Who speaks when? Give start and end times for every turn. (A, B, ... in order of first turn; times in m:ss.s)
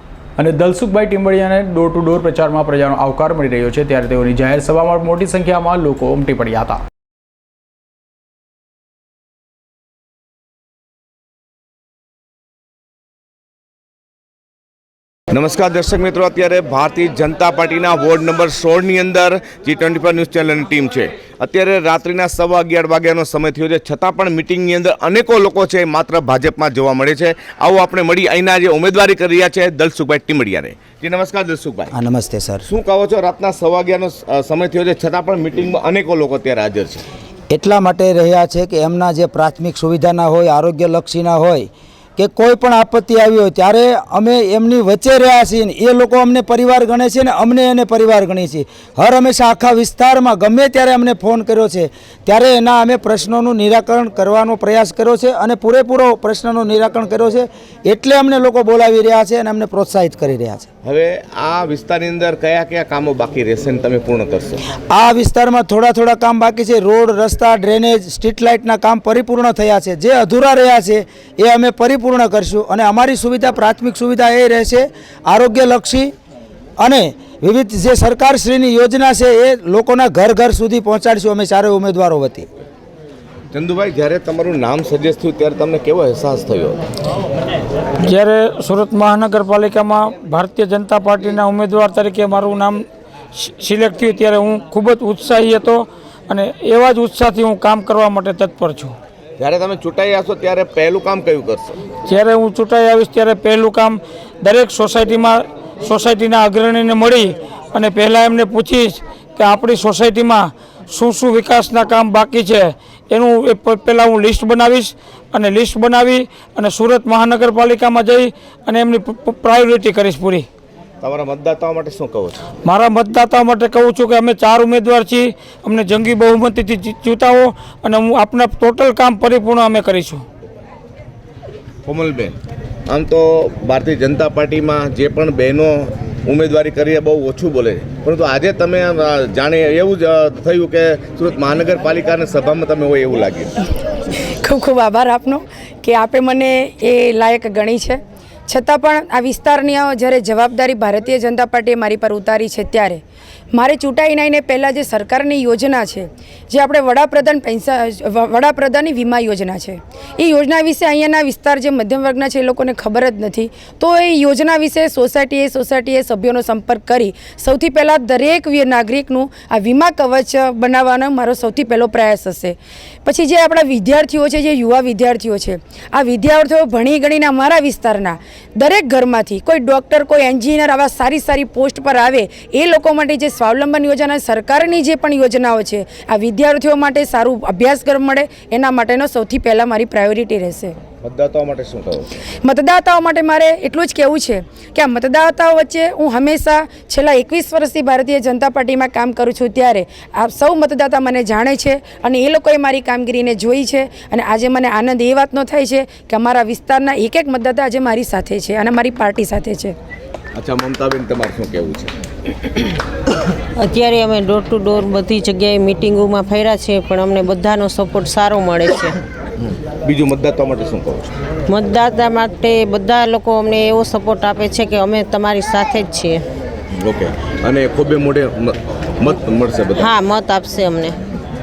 0:00.4-0:06.8 A
0:15.3-0:31.9 B
0:31.9-0:32.6 C
0:32.7-0:37.0 B
0:37.5-1:00.7 C
1:00.8-1:04.6 B
1:04.9-1:16.1 C
1:16.8-1:22.5 C
1:23.5-1:26.8 B
1:28.0-1:32.8 D
1:33.4-1:39.0 D
1:39.4-1:41.8 B
1:42.1-2:00.5 D
2:01.0-2:02.4 B
2:02.6-2:10.2 D
2:11.9-2:12.4 B
2:12.9-2:15.7 B
2:16.3-2:23.5 B
2:24.1-2:33.0 E
2:33.5-3:10.8 E
3:11.0-3:12.2 B
3:12.3-3:29.8 E
3:30.4-3:31.9 B
3:33.6-3:39.0 F
3:39.9-3:41.1 B
3:41.5-3:46.2 F
3:46.8-3:48.2 B
3:49.0-3:49.7 B
3:49.8-3:51.0 F